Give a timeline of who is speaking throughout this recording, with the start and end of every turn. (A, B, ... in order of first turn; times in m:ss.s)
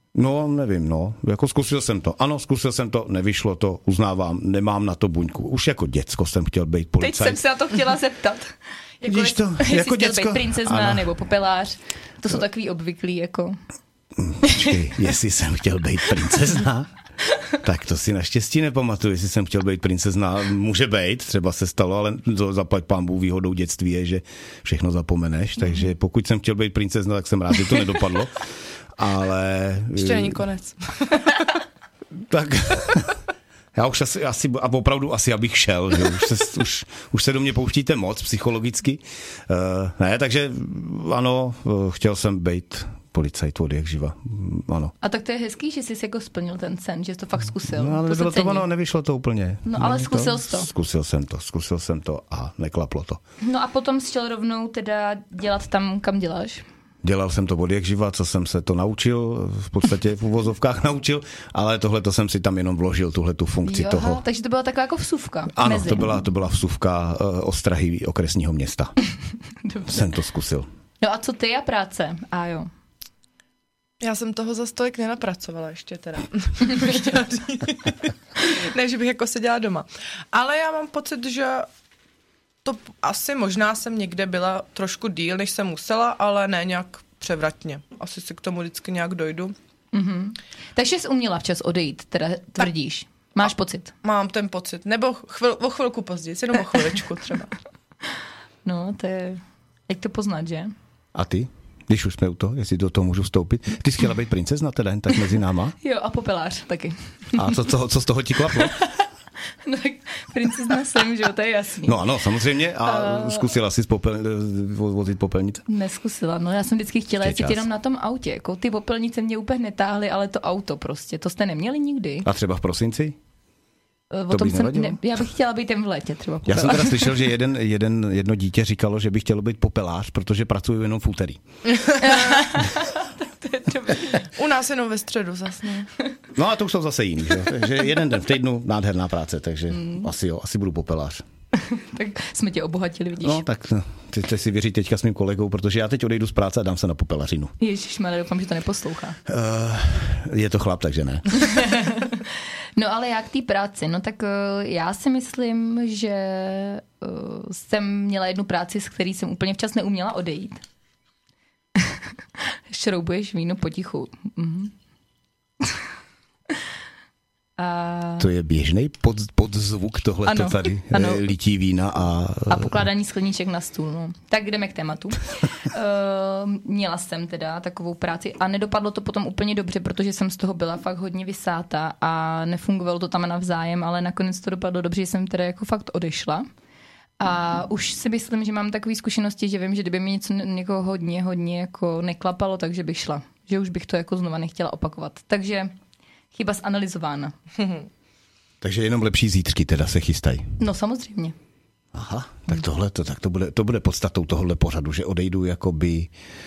0:00.2-0:07.4 A
0:07.0-0:08.5 B
0:09.0-0:13.6 B
0:09.0-0:11.1 A
0:14.2-0:16.9 A
0:17.6-0:28.4 A
0:29.0-0:30.4 A
0:30.0-0:31.4 C
0:32.1-0:33.2 A
0:33.8-0:44.9 A
0:45.0-0:48.7 B
0:47.7-0:53.2 A
0:49.6-0:50.7 B
0:53.4-0:56.6 B
0:57.0-1:04.2 A
1:03.6-1:06.1 B
1:05.5-1:08.9 A
1:09.6-1:09.9 B
1:09.9-1:10.7 A
1:11.0-1:12.7 B
1:14.0-1:21.7 C
1:22.6-1:29.6 C
1:29.9-1:33.9 B
1:34.0-1:37.6 C
1:38.6-1:40.7 B
1:41.1-1:45.8 A
1:45.8-1:47.6 B
1:47.4-1:48.8 A
1:48.6-1:49.0 B
1:49.6-1:52.0 B
1:51.9-1:55.6 A
1:52.8-1:53.5 B
1:55.7-2:02.3 B
1:57.2-1:57.6 A
2:02.2-2:03.2 A
2:04.1-2:07.1 B
2:04.3-2:05.0 A
2:06.5-2:11.4 A
2:11.8-2:12.3 C
2:12.0-2:14.3 B
2:14.3-2:15.9 C
2:16.4-2:21.2 A
2:19.7-2:20.1 B
2:21.6-2:23.4 B
2:23.2-2:27.5 A
2:27.6-2:29.2 B
2:29.3-2:31.3 A
2:31.4-2:32.2 B
2:32.8-2:40.6 B
2:41.8-2:44.7 B
2:47.6-2:48.3 B
2:48.2-2:52.8 A
2:50.3-2:51.2 B
2:52.5-3:06.5 B
3:07.2-3:15.7 B
3:16.3-3:17.4 B
3:18.6-3:20.6 A
3:20.6-3:21.4 B
3:21.9-3:26.1 A